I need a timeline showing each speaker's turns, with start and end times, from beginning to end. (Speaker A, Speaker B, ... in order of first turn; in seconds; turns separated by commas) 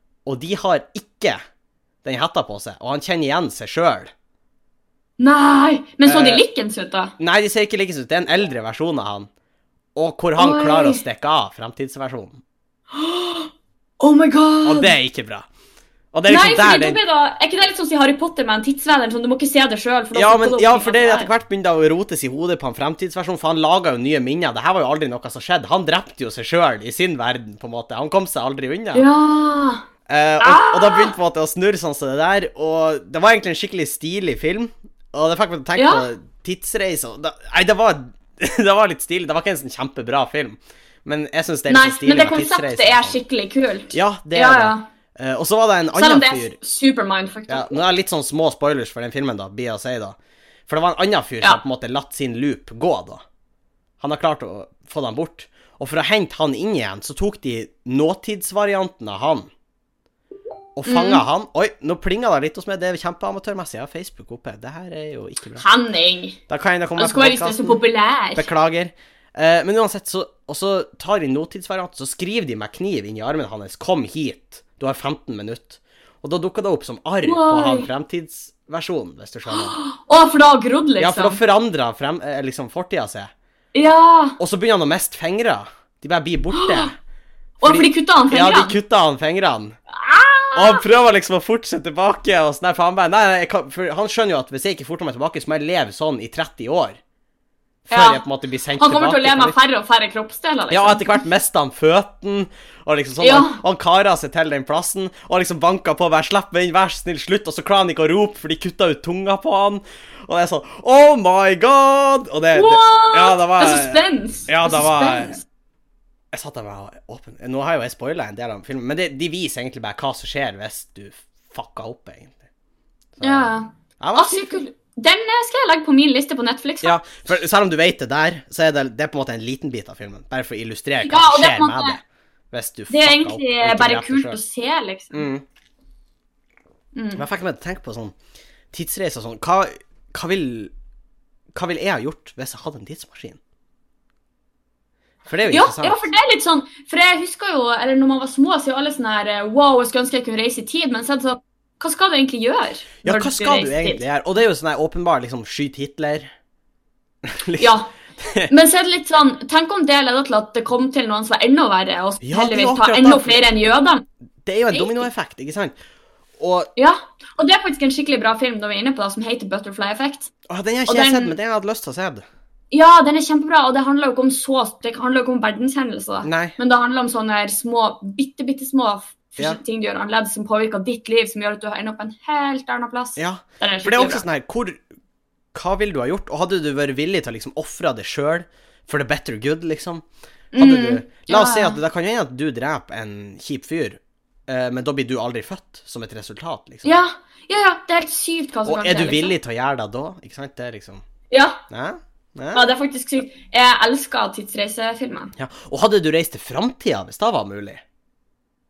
Speaker A: 0.2-1.4, Speaker A: 2.0-4.1, Speaker B: 5.2-7.1, Speaker A: 6.0-6.4, Speaker A: 7.2-9.3, Speaker A: 9.9-12.4, Speaker B: 10.4-11.0, Speaker B: 12.9-14.9, Speaker A: 14.6-15.5, Speaker A: 16.1-17.0, Speaker B: 16.3-21.3, Speaker A: 20.1-29.0, Speaker B: 28.9-29.8, Speaker A: 30.1-43.2, Speaker B: 30.4-31.1, Speaker B: 35.8-36.0, Speaker B: 41.7-44.9, Speaker A: 43.9-46.6, Speaker B: 45.9-47.8, Speaker A: 47.5-53.2, Speaker A: 54.0-59.5, Speaker A: 60.8-65.6, Speaker B: 60.9-61.2, Speaker B: 65.6-66.4, Speaker A: 66.5-67.8, Speaker B: 67.0-68.5, Speaker A: 68.3-79.7, Speaker B: 77.2-77.9, Speaker B: 79.5-81.4, Speaker A: 81.0-83.3, Speaker B: 83.7-84.4, Speaker A: 84.4-86.9, Speaker B: 86.5-86.9, Speaker B: 87.6-88.7, Speaker A: 87.6-89.8, Speaker B: 89.9-90.8, Speaker A: 90.5-97.0, Speaker A: 97.8-99.5, Speaker B: 97.9-98.2, Speaker B: 98.8-101.0, Speaker A: 100.7-115.4, Speaker B: 103.2-103.6, Speaker B: 112.5-115.4, Speaker A: 116.3-122.4, Speaker A: 123.2-124.6, Speaker B: 123.2-127.0, Speaker A: 126.8-132.0, Speaker B: 131.0-132.0, Speaker A: 132.5-134.4, Speaker B: 132.9-135.2, Speaker A: 135.1-135.4, Speaker B: 136.9-137.2, Speaker A: 137.1-138.1, Speaker A: 138.7-140.7, Speaker A: 141.5-143.4, Speaker A: 145.3-146.0, Speaker B: 145.5-154.0, Speaker A: 153.0-156.3, Speaker A: 157.2-158.5, Speaker B: 157.6-157.9, Speaker B: 158.5-164.0, Speaker A: 162.2-163.4, Speaker A: 164.4-165.7, Speaker B: 164.7-165.1, Speaker A: 166.4-166.7, Speaker B: 166.8-170.3, Speaker A: 170.5-172.2, Speaker B: 170.9-171.3, Speaker B: 172.7-184.2, Speaker A: 176.2-176.6, Speaker A: 183.2-184.8, Speaker A: 185.5-190.0, Speaker B: 190.5-191.8, Speaker A: 190.6-196.9, Speaker B: 196.8-199.3, Speaker A: 198.7-201.0, Speaker B: 201.3-201.6, Speaker A: 201.7-202.7, Speaker B: 202.5-205.3, Speaker A: 205.3-207.8